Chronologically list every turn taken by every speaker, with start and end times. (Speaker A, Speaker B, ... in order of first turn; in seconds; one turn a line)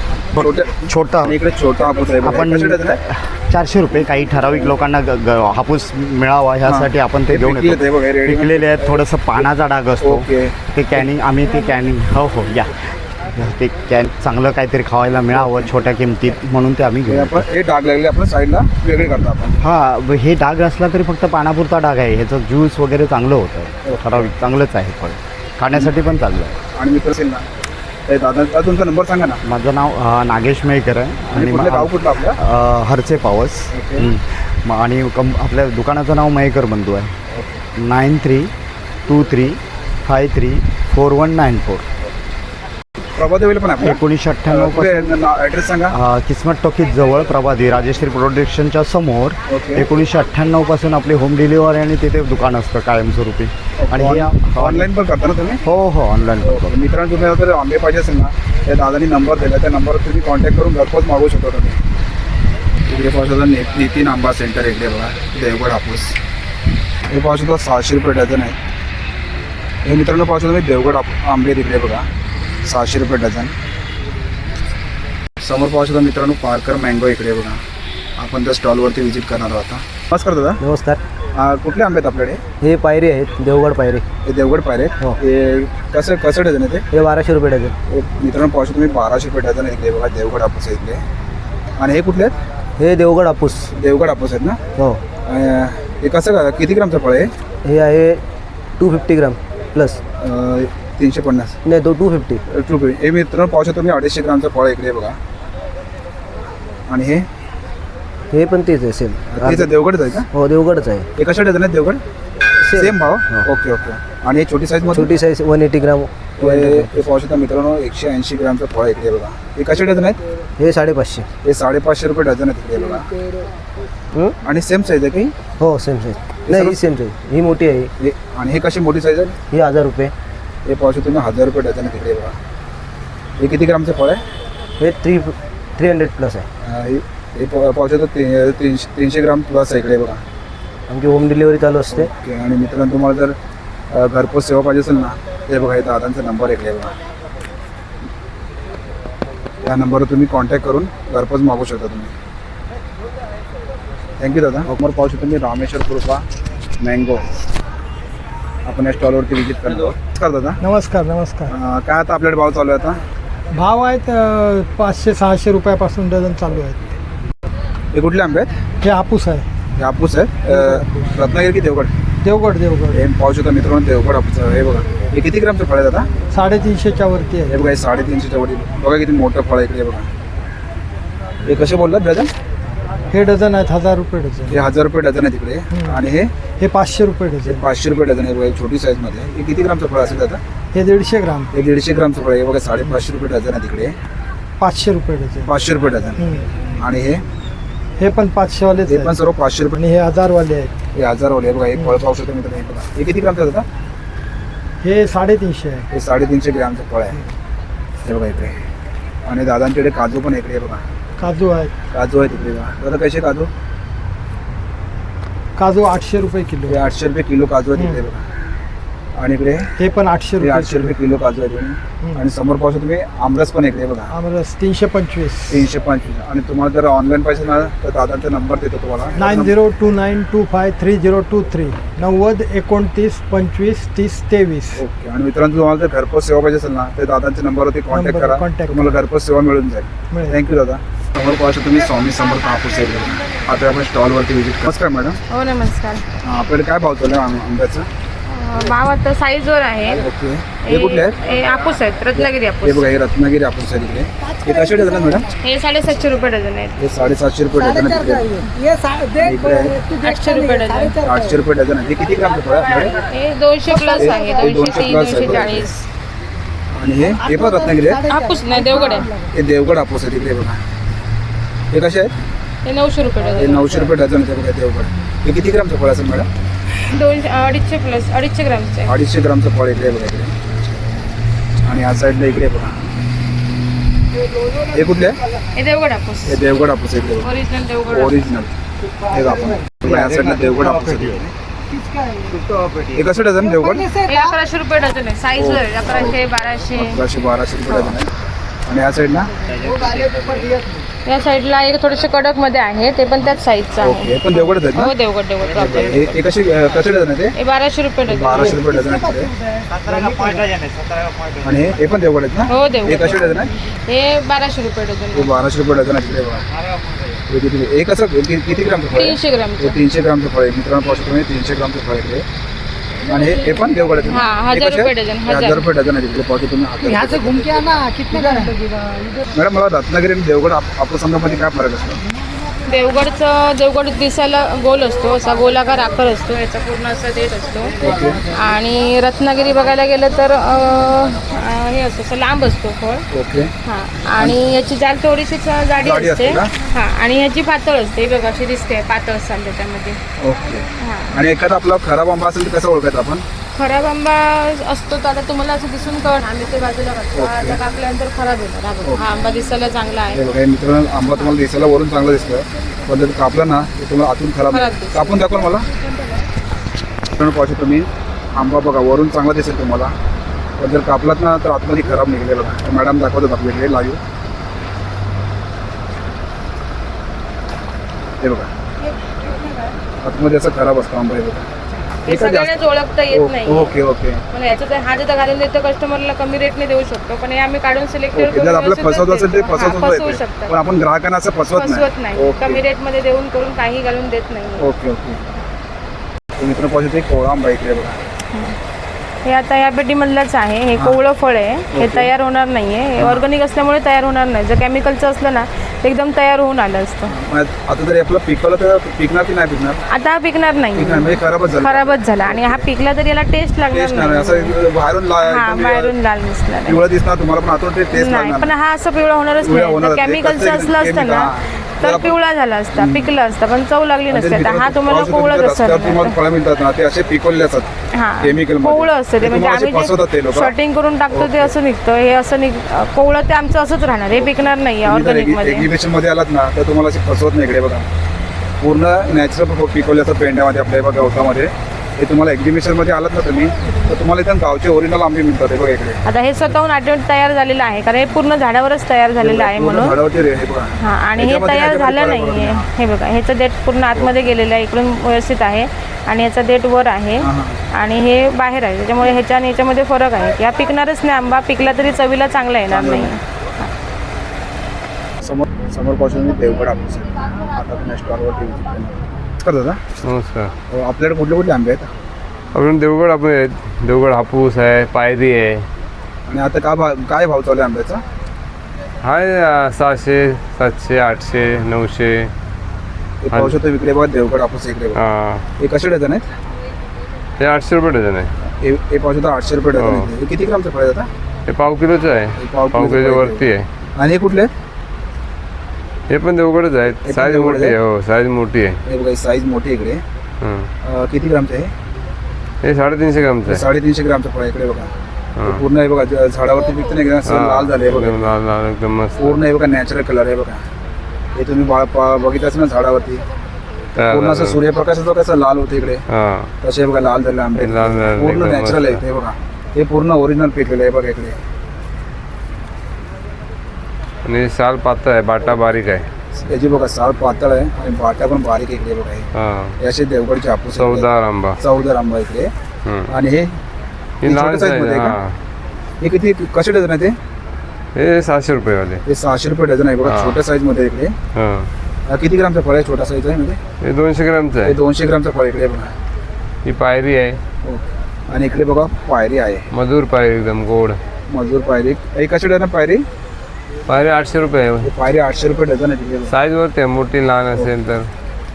Speaker A: 0.3-1.4
Speaker B: 0.3-3.0
Speaker A: 2.2-17.4
Speaker B: 6.6-9.0
Speaker B: 10.0-11.0
Speaker B: 15.3-15.7
Speaker B: 17.1-19.6
Speaker A: 19.6-26.6
Speaker B: 23.9-24.2
Speaker B: 26.7-27.5
Speaker B: 28.1-29.4
Speaker A: 29.4-37.1
Speaker B: 31.3-32.4
Speaker B: 33.7-34.1
Speaker B: 37.3-37.6
Speaker A: 37.8-38.5
Speaker A: 39.1-41.8
Speaker B: 43.2-45.9
Speaker A: 43.8-45.2
Speaker A: 45.9-54.9
Speaker B: 49.5-49.8
Speaker B: 53.8-55.6
Speaker A: 55.6-56.7
Speaker B: 56.4-61.8
Speaker B: 62.9-66.2
Speaker B: 67.1-68.6
Speaker B: 69.8-72.1
Speaker B: 72.6-73.5
Speaker B: 75.4-77.6
Speaker B: 78.2-80.6
Speaker C: 80.6-81.0
Speaker B: 81.3-82.4
Speaker C: 82.6-84.0
Speaker B: 84.2-86.8
Speaker C: 86.9-87.8
Speaker B: 87.9-91.0
Speaker B: 91.8-92.3
Speaker C: 92.8-93.7
Speaker B: 93.7-94.6
Speaker C: 94.8-95.0
Speaker B: 95.2-97.3
Speaker C: 97.6-98.2
Speaker C: 98.8-100.0
Speaker B: 100.2-101.5
Speaker C: 101.6-102.4
Speaker B: 102.5-105.2
Speaker B: 106.9-107.3
Speaker C: 108.3-109.8
Speaker B: 109.3-110.3
Speaker C: 110.3-111.1
Speaker B: 111.2-112.0
Speaker C: 112.6-113.5
Speaker B: 112.7-115.1
Speaker C: 114.9-117.1
Speaker B: 116.4-120.2
Speaker C: 120.6-121.3
Speaker B: 121.4-123.1
Speaker B: 124.4-125.3
Speaker C: 125.6-127.9
Speaker B: 126.5-126.8
Speaker B: 128.0-129.4
Speaker C: 129.5-130.1
Speaker B: 130.7-132.3
Speaker B: 133.4-134.2
Speaker C: 134.8-136.5
Speaker B: 136.6-140.2
Speaker C: 140.9-142.1
Speaker B: 141.9-143.4
Speaker B: 143.9-146.9
Speaker B: 149.6-152.1
Speaker B: 154.2-156.2
Speaker B: 156.8-157.3
Speaker B: 158.7-160.6
Speaker D: 160.6-161.5
Speaker B: 161.5-163.0
Speaker D: 163.5-166.9
Speaker B: 167.9-168.6
Speaker D: 168.8-169.5
Speaker B: 169.8-171.9
Speaker D: 170.5-170.8
Speaker D: 172.2-173.1
Speaker B: 172.9-176.1
Speaker D: 176.3-177.8
Speaker B: 177.5-180.1
Speaker B: 181.4-182.3
Speaker D: 183.1-184.7
Speaker B: 184.5-186.3
Speaker D: 185.7-186.0
Speaker D: 186.6-187.7
Speaker B: 187.4-190.4
Speaker D: 190.7-191.5
Speaker B: 191.5-194.0
Speaker D: 194.6-195.5
Speaker B: 195.4-197.2
Speaker D: 196.2-196.5
Speaker D: 198.0-199.2
Speaker B: 198.8-199.8
Speaker D: 199.7-200.7
Speaker B: 200.9-203.7
Speaker D: 204.8-205.8
Speaker B: 205.9-207.2
Speaker B: 208.0-208.6
Speaker B: 209.2-210.8
Speaker D: 211.2-211.7
Speaker B: 211.9-213.5
Speaker D: 215.6-216.8
Speaker B: 216.7-218.3
Speaker D: 217.7-218.0
Speaker B: 219.2-219.7
Speaker D: 219.8-221.0
Speaker B: 220.3-224.1
Speaker D: 224.1-225.7
Speaker B: 225.5-229.6
Speaker D: 229.2-234.8
Speaker B: 234.7-245.2
Speaker D: 237.9-239.0
Speaker D: 240.1-240.4
Speaker E: 245.3-246.0
Speaker B: 246.2-247.9
Speaker E: 248.3-250.0
Speaker B: 250.0-251.2
Speaker E: 250.7-252.9
Speaker B: 252.2-255.3
Speaker E: 255.4-256.8
Speaker B: 256.8-258.3
Speaker B: 259.2-259.8
Speaker E: 260.0-261.0
Speaker B: 261.0-262.9
Speaker E: 263.1-265.8
Speaker B: 264.0-265.7
Speaker B: 266.7-268.1
Speaker E: 268.1-269.1
Speaker B: 269.2-270.6
Speaker B: 271.7-272.1
Speaker E: 272.6-273.9
Speaker B: 273.4-276.3
Speaker E: 276.9-278.9
Speaker B: 278.9-280.4
Speaker B: 281.6-282.8
Speaker B: 284.7-285.2
Speaker E: 285.5-286.4
Speaker B: 286.2-287.3
Speaker E: 287.2-288.2
Speaker B: 287.9-288.5
Speaker B: 289.1-291.3
Speaker B: 292.9-293.9
Speaker E: 294.0-297.0
Speaker B: 295.4-296.2
Speaker B: 296.7-298.1
Speaker E: 297.7-297.9
Speaker B: 298.6-299.3
Speaker E: 301.1-306.2
Speaker B: 303.8-304.9
Speaker B: 305.5-307.3
Speaker E: 307.4-308.6
Speaker B: 308.1-309.3
Speaker B: 311.4-313.5
Speaker E: 312.5-313.2
Speaker E: 313.9-315.3
Speaker B: 315.1-316.4
Speaker B: 317.3-322.2
Speaker E: 318.9-319.8
Speaker B: 323.1-327.8
Speaker E: 324.1-325.6
Speaker E: 328.1-328.5
Speaker B: 329.3-332.0
Speaker E: 332.7-343.0
Speaker B: 337.8-338.2
Speaker B: 343.1-343.5
Speaker E: 343.6-350.0
Speaker B: 345.8-346.5
Speaker B: 350.2-353.2
Speaker E: 350.8-351.2
Speaker E: 353.6-360.2
Speaker B: 357.1-357.6
Speaker B: 360.1-365.7
Speaker E: 364.5-365.3
Speaker B: 367.1-369.9
Speaker B: 370.6-374.0
Speaker B: 378.2-378.5
Speaker B: 380.0-381.5
Speaker B: 382.1-382.6
Speaker E: 382.1-383.8
Speaker B: 383.1-384.2
Speaker E: 384.3-390.6
Speaker B: 388.1-392.6
Speaker E: 391.5-394.7
Speaker B: 394.6-395.2
Speaker B: 396.4-398.0
Speaker E: 399.2-407.1
Speaker B: 401.7-402.1
Speaker B: 403.0-403.2
Speaker B: 407.1-409.8
Speaker E: 409.9-414.5
Speaker B: 410.7-412.6
Speaker B: 413.7-415.9
Speaker E: 415.2-416.8
Speaker B: 416.6-418.5
Speaker E: 417.9-426.1
Speaker B: 419.4-422.1
Speaker B: 422.7-423.1
Speaker B: 424.1-430.5
Speaker E: 427.9-435.7
Speaker B: 431.1-431.5
Speaker B: 434.1-437.9
Speaker B: 438.6-446.0
Speaker E: 446.1-450.0
Speaker B: 449.2-452.7
Speaker E: 450.8-463.7
Speaker B: 457.2-457.6
Speaker B: 462.7-463.1
Speaker B: 465.2-469.9
Speaker F: 470.0-470.5
Speaker B: 470.7-471.9
Speaker F: 472.5-475.6
Speaker B: 476.3-478.0
Speaker F: 479.0-482.3
Speaker B: 483.2-485.0
Speaker F: 483.3-483.6
Speaker F: 484.9-485.4
Speaker B: 485.6-486.3
Speaker F: 487.4-488.3
Speaker B: 488.5-491.1
Speaker F: 489.8-490.1
Speaker F: 491.5-493.7
Speaker B: 492.4-493.4
Speaker B: 494.0-494.5
Speaker F: 496.1-498.8
Speaker B: 497.0-497.8
Speaker B: 498.9-500.0
Speaker F: 500.4-500.7
Speaker B: 500.8-501.7
Speaker F: 502.6-503.6
Speaker B: 503.4-504.9
Speaker F: 505.4-505.6
Speaker B: 505.4-508.3
Speaker F: 507.2-509.4
Speaker B: 509.2-510.6
Speaker B: 511.4-513.2
Speaker F: 514.0-514.6
Speaker B: 514.0-516.0
Speaker F: 516.1-516.5
Speaker B: 516.6-521.4
Speaker F: 517.6-519.0
Speaker F: 524.2-526.1
Speaker B: 526.4-529.3
Speaker F: 529.3-529.8
Speaker B: 529.8-531.1
Speaker F: 530.8-531.6
Speaker B: 531.6-532.5
Speaker F: 532.9-533.1
Speaker B: 533.1-533.6
Speaker F: 534.2-535.4
Speaker B: 534.2-535.2
Speaker B: 536.0-537.1
Speaker F: 538.0-539.0
Speaker B: 539.1-541.1
Speaker F: 540.0-540.4
Speaker F: 541.4-541.7
Speaker B: 542.1-543.6
Speaker F: 543.8-544.8
Speaker B: 544.6-545.9
Speaker F: 546.6-547.4
Speaker B: 547.6-549.7
Speaker F: 549.7-551.0
Speaker B: 551.3-553.0
Speaker F: 553.9-554.9
Speaker B: 554.8-556.3
Speaker F: 556.3-558.1